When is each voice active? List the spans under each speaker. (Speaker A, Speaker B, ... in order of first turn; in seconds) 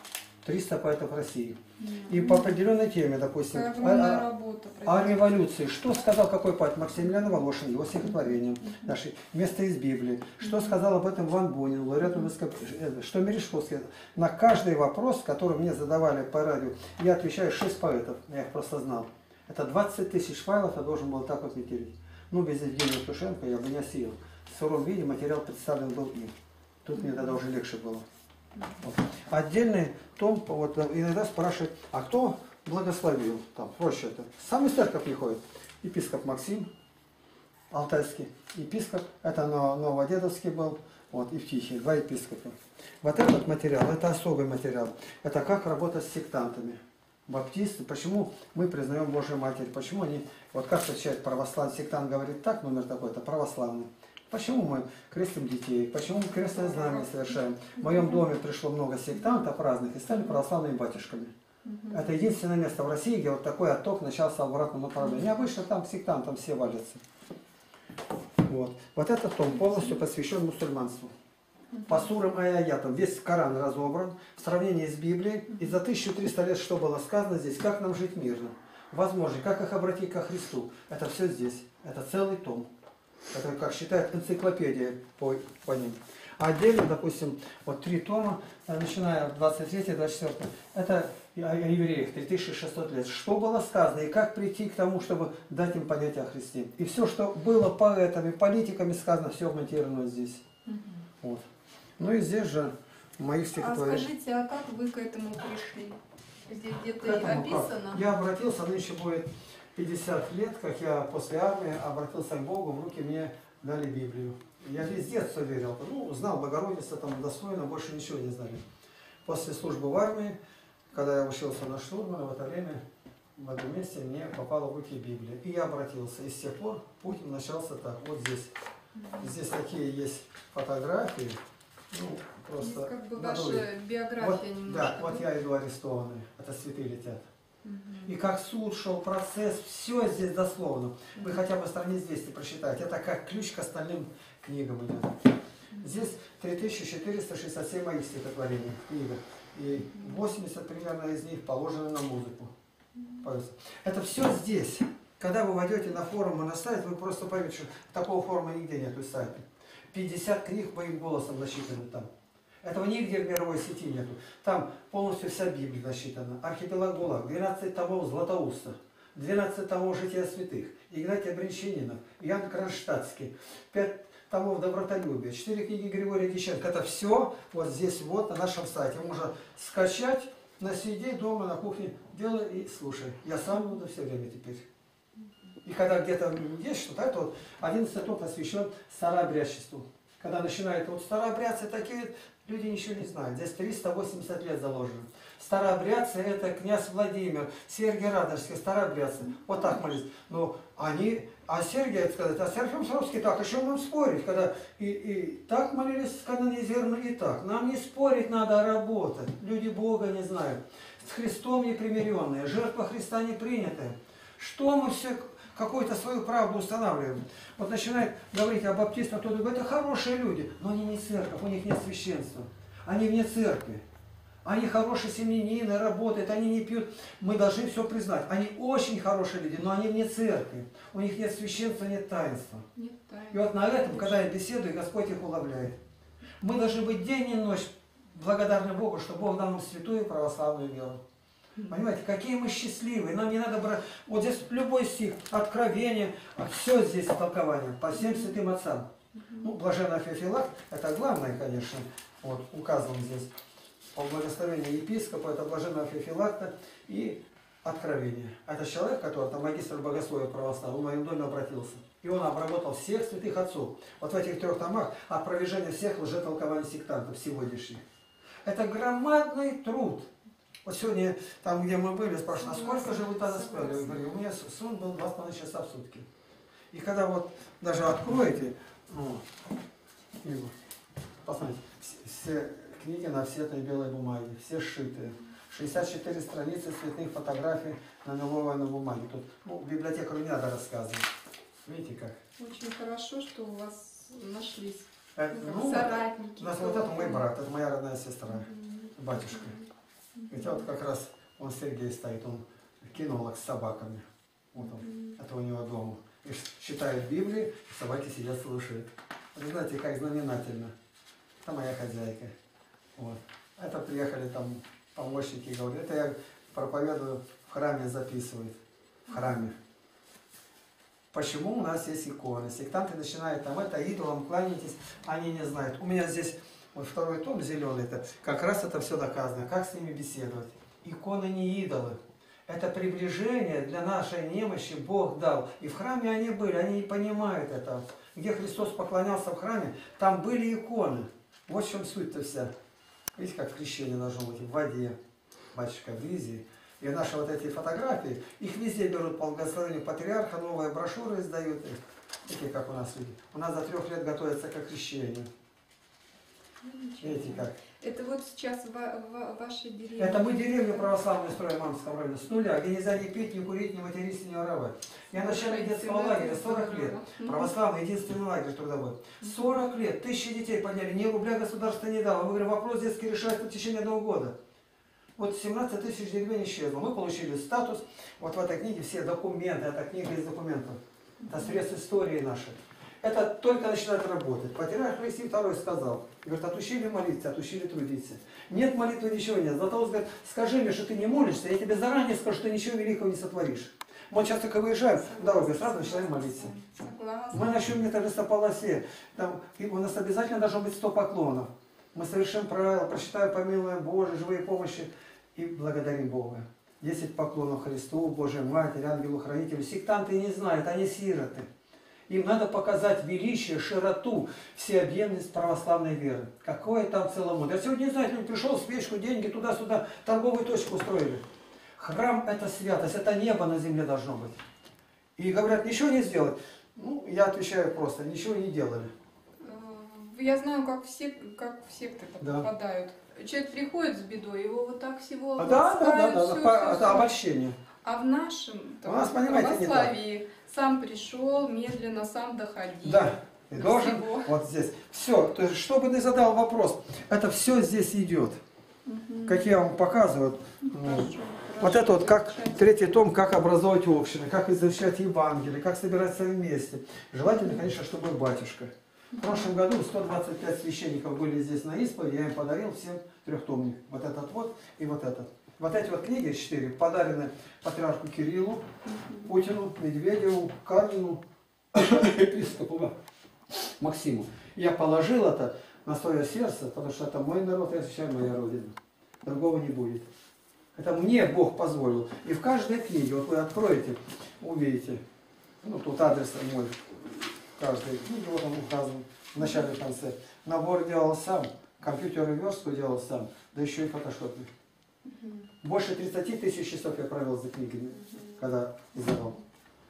Speaker A: 0.4-4.3, 4.8-26.3, 26.8-28.1, 28.8-36.7, 37.7-61.3, 61.9-67.0, 68.5-71.1, 71.9-82.7, 83.3-100.4, 102.0-104.1, 107.0-118.6, 119.3-120.4, 120.9-122.8, 123.4-128.5, 129.2-131.4, 131.9-133.7, 134.2-137.2, 138.1-145.2, 145.8-152.5, 153.2-162.1, 162.6-184.7, 185.6-223.8, 224.4-232.7, 233.3-235.8, 236.4-241.0, 241.7-253.3, 253.9-267.8, 268.4-270.1, 270.6-276.1, 276.7-279.2, 280.2-280.5, 281.2-291.1, 291.6-292.2, 295.2-299.6, 300.3-310.7, 311.4-312.3, 313.0-318.6, 319.1-319.6, 321.1-342.5, 343.2-345.0, 345.5-355.3, 357.0-357.6, 360.0-374.4, 375.2-396.5, 397.3-411.5, 412.1-421.2, 421.8-424.4, 425.2-428.9, 432.2-432.5, 435.4-437.6, 438.8-440.0, 442.8-448.4, 449.3-468.6, 469.2-471.2, 471.7-472.9, 473.5-480.1, 480.8-485.0, 485.6-494.5, 495.6-499.4
Speaker B: 1.8-2.5, 3.5-5.3, 10.4-10.7, 56.5-57.1, 57.8-58.1, 61.6-62.0, 71.7-72.1, 100.7-101.1, 103.6-108.0, 129.0-129.3, 132.6-135.3, 137.6-138.1, 145.7-146.0, 149.8-150.2, 199.5-199.8, 232.8-234.2, 247.9-248.3, 249.2-249.5, 272.4-274.0, 292.4-297.3, 298.3-300.7, 304.6-305.1, 356.6-360.8, 365.1-367.5, 381.2-381.6, 395.0-397.6, 429.4-437.1, 437.8-444.3, 448.9-449.5, 450.6-452.9, 457.3-457.6, 459.1-459.5, 468.9-469.3, 495.1-495.5